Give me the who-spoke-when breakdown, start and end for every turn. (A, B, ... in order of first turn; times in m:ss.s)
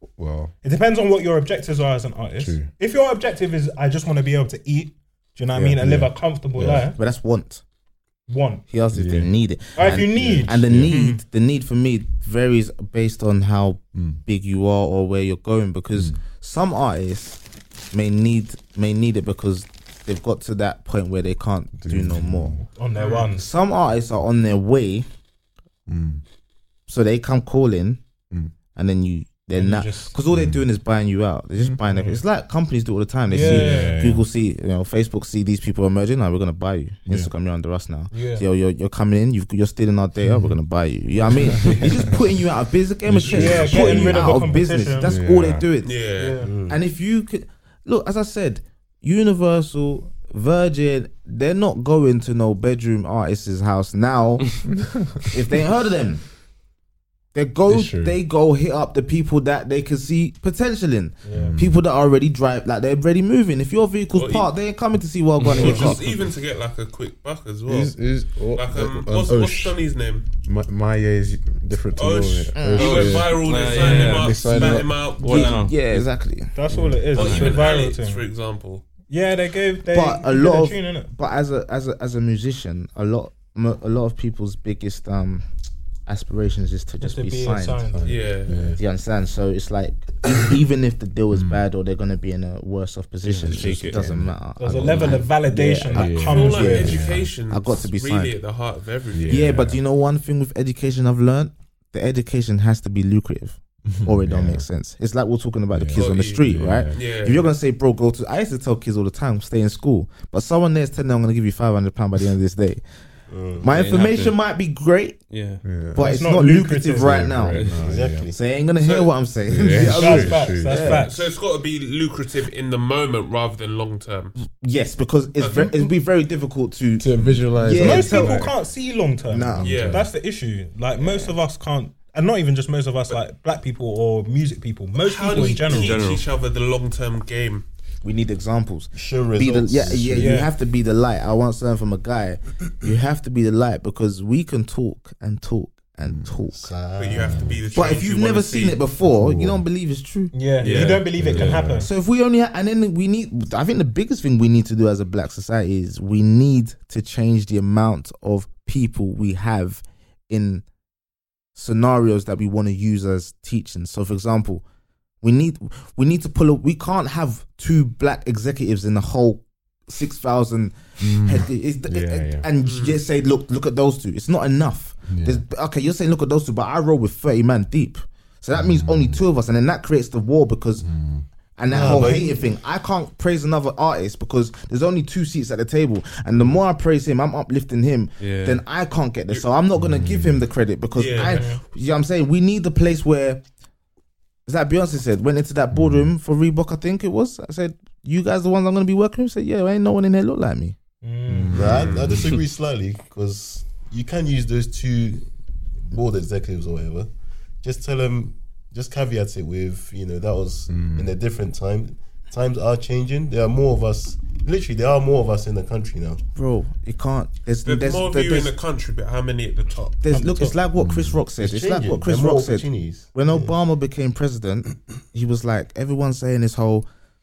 0:00.2-0:00.5 A
0:00.6-0:07.0 B
0:02.4-0:02.7 A
0:05.5-0:05.8 C
0:05.8-0:06.9 A
0:06.6-0:07.6 C
0:08.3-0:08.6 B
0:08.7-0:17.4 C
0:08.9-0:11.0 A
0:09.7-0:11.2 B
0:17.9-0:22.6 C
0:21.8-0:22.6 A
0:22.7-0:23.5 B
0:23.0-0:23.3 D
0:23.3-0:25.0 C
0:25.9-0:26.2 A
0:26.9-0:28.0 C
0:28.7-0:46.0 C
0:29.5-0:30.1 B
0:30.3-0:30.6 A
0:31.8-0:32.2 B
0:33.3-0:34.0 B
0:33.3-0:34.3 A
0:38.1-0:38.4 B
0:40.2-0:40.6 A
0:41.3-0:42.2 A
0:43.0-0:45.7 A
0:43.2-0:45.1 B
0:45.8-0:46.4 D
0:46.2-0:46.5 B
0:46.4-0:46.8 E
0:46.7-0:54.7 C
0:54.7-0:55.3 A
0:55.3-0:56.2 C
0:57.3-1:06.0 C
0:57.7-0:58.2 A
1:01.2-1:01.6 B
1:01.3-1:01.8 A
1:04.1-1:04.5 D
1:05.4-1:06.0 F
1:05.5-1:08.0 D
1:07.6-1:09.8 A
1:08.5-1:10.2 D
1:10.4-1:15.3 A
1:11.9-1:15.6 D
1:12.5-1:13.3 C
1:12.8-1:16.0 F
1:13.7-1:14.2 B
1:15.2-1:16.5 C
1:16.5-1:18.2 B
1:16.7-1:17.0 A
1:17.1-1:17.6 F
1:17.1-1:18.8 D
1:19.1-1:21.1 B
1:19.9-1:25.5 C
1:26.1-1:27.9 C
1:27.0-1:28.0 B
1:27.9-1:28.8 A
1:28.0-1:28.6 D
1:28.5-1:38.3 C
1:31.3-1:31.6 A
1:33.3-1:34.1 F
1:33.3-1:35.2 A
1:34.6-1:37.0 B
1:35.9-1:37.3 A
1:36.2-1:39.6 D
1:39.1-1:39.8 A
1:39.3-1:52.8 C
1:43.9-1:44.6 A
1:45.7-1:47.0 A
1:45.9-1:47.5 D
1:53.3-1:53.7 E
1:53.6-1:55.2 C
1:53.7-1:54.4 F
1:55.3-1:55.6 F
1:55.6-1:56.1 A
1:55.9-1:57.7 C
1:56.0-1:57.3 B
1:57.0-1:58.3 A
1:57.4-1:57.8 F
1:57.7-1:58.4 E
1:58.3-2:01.1 C
1:58.8-1:59.1 D
1:59.5-2:01.0 A
1:59.7-2:01.3 B
2:00.9-2:04.3 D
2:04.4-2:08.5 C
2:05.4-2:05.9 D
2:07.0-2:08.5 A
2:07.7-2:16.1 B
2:09.3-2:09.7 C
2:09.5-2:10.1 A
2:09.6-2:10.0 D
2:11.0-2:11.3 C
2:15.0-2:17.6 D
2:15.4-2:16.2 F
2:18.0-2:26.7 C
2:18.9-2:20.5 E
2:20.1-2:20.5 B
2:26.0-2:26.4 A
2:26.5-2:27.4 E
2:27.0-2:28.8 D
2:27.2-2:27.6 A
2:27.7-2:30.8 C
2:29.0-2:29.6 A
2:30.3-2:31.9 B
2:30.6-2:31.6 F
2:31.1-2:31.9 A
2:31.8-2:40.6 C
2:41.5-2:44.6 C
2:45.2-3:00.8 C
2:51.0-2:52.5 A
2:52.6-2:53.0 D
2:55.1-2:55.4 A
2:58.5-2:59.2 A
3:00.8-3:01.2 A
3:01.6-3:13.4 C
3:01.6-3:02.4 E
3:08.2-3:08.6 F
3:09.8-3:10.4 A
3:10.9-3:11.5 D
3:11.2-3:11.6 B
3:14.4-3:20.8 C
3:15.7-3:16.1 A
3:21.0-3:21.6 B
3:21.3-3:22.4 A
3:21.5-3:25.3 E
3:21.6-3:22.2 D
3:25.9-3:27.1 E
3:27.6-3:36.2 E
3:30.7-3:31.1 A
3:36.3-3:38.5 C
3:37.6-3:40.0 D
3:40.0-3:46.8 C
3:40.1-3:40.6 B
3:40.8-3:41.2 A
3:41.4-3:43.5 E